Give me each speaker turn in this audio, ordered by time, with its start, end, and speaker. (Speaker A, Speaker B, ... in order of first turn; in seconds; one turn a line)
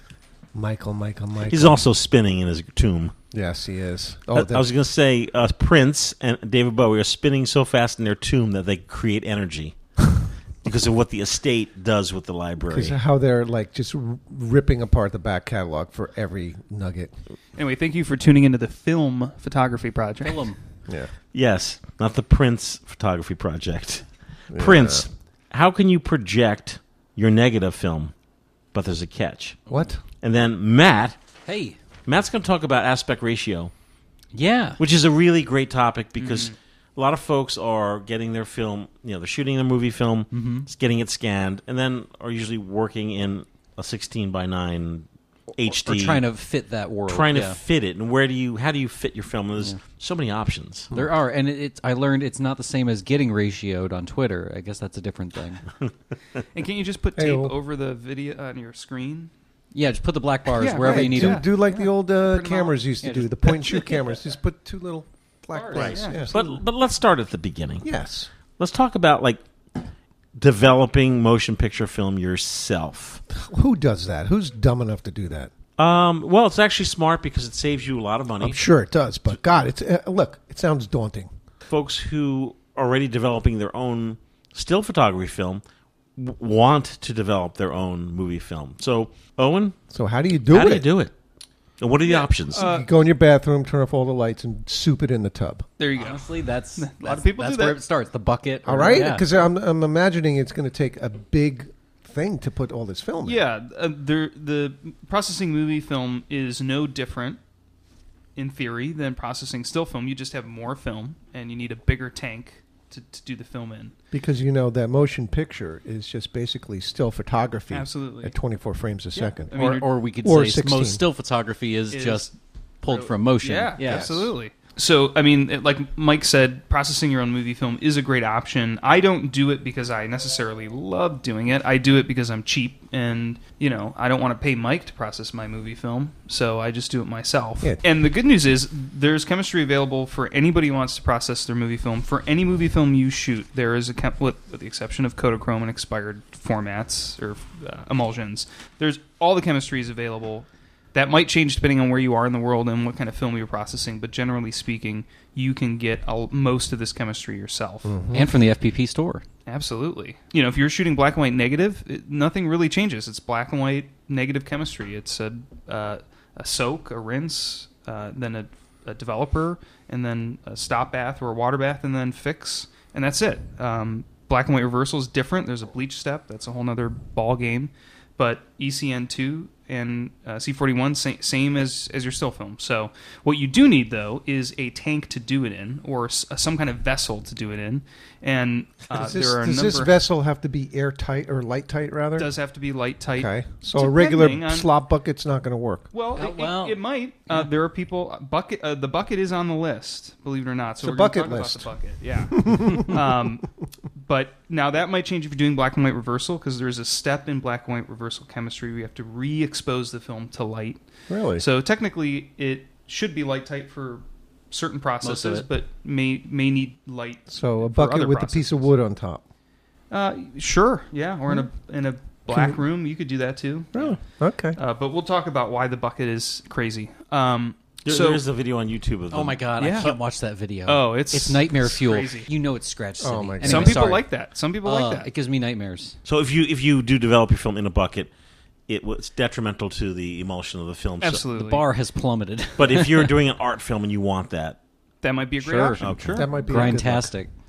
Speaker A: 0.5-1.9
Speaker B: 1.5-3.1
Speaker A: 3.3-4.7
Speaker B: 4.3-9.8
Speaker B: 10.6-13.0
Speaker A: 12.6-17.1
Speaker C: 17.6-20.5
Speaker D: 20.2-20.6
Speaker A: 20.9-21.1
Speaker B: 21.3-28.1
Speaker A: 24.5-25.1
Speaker B: 28.7-29.6
Speaker A: 29.7-30.0
Speaker B: 30.2-31.2
Speaker D: 31.5-31.8
Speaker B: 32.0-33.7
Speaker D: 34.3-34.8
Speaker B: 34.8-46.2
Speaker C: 36.2-36.5
Speaker D: 40.3-40.7
Speaker D: 45.8-47.6
Speaker B: 47.1-50.9
Speaker D: 50.9-55.6
Speaker C: 56.5-59.3
Speaker A: 57.2-57.5
Speaker D: 59.7-61.4
Speaker C: 60.6-62.8
Speaker A: 60.8-66.3
Speaker D: 63.0-63.5
Speaker C: 63.5-64.0
Speaker C: 65.5-66.5
Speaker B: 65.7-67.9
Speaker A: 67.8-68.3
Speaker B: 68.6-69.8
Speaker B: 70.3-73.2
Speaker A: 73.3-75.5
Speaker B: 75.8-78.7
Speaker A: 78.4-81.3
Speaker B: 81.7-85.6
Speaker B: 86.2-89.8
Speaker A: 89.9-90.9
Speaker B: 90.5-91.1
Speaker B: 91.8-92.7
Speaker C: 92.0-92.9
Speaker A: 92.5-95.7
Speaker C: 95.8-97.8
Speaker D: 96.0-99.3
Speaker A: 98.7-103.5
Speaker C: 103.2-107.4
Speaker C: 108.4-113.9
Speaker A: 114.1-121.0
Speaker C: 117.7-118.4
Speaker C: 119.1-119.9
Speaker D: 119.5-122.3
Speaker C: 121.9-122.3
Speaker D: 122.8-124.2
Speaker C: 122.8-158.0
Speaker A: 123.8-124.3
Speaker A: 157.9-158.3
Speaker D: 158.1-159.2
Speaker C: 159.5-189.9
Speaker A: 188.9-192.3
Speaker C: 192.2-194.7
Speaker A: 193.2-195.9
Speaker C: 195.9-210.8
Speaker D: 196.2-197.5
Speaker A: 200.8-201.7
Speaker A: 202.4-203.0
Speaker A: 211.1-211.4
Speaker C: 211.4-218.7
Speaker D: 215.0-215.5
Speaker A: 217.3-219.2
Speaker C: 219.9-224.0
Speaker A: 222.3-222.6
Speaker A: 223.7-224.6
Speaker C: 224.6-228.2
Speaker B: 227.8-229.4
Speaker D: 229.1-234.0
Speaker C: 229.6-229.9
Speaker C: 230.7-232.3
Speaker A: 233.0-234.0
Speaker C: 233.4-235.1
Speaker D: 234.6-236.0
Speaker B: 236.1-238.1
Speaker B: 238.7-241.2
Speaker C: 241.0-241.6
Speaker D: 241.3-243.1
Speaker B: 242.6-244.6
Speaker C: 245.0-246.2
Speaker D: 245.4-247.3
Speaker B: 245.8-246.3
Speaker A: 246.1-247.1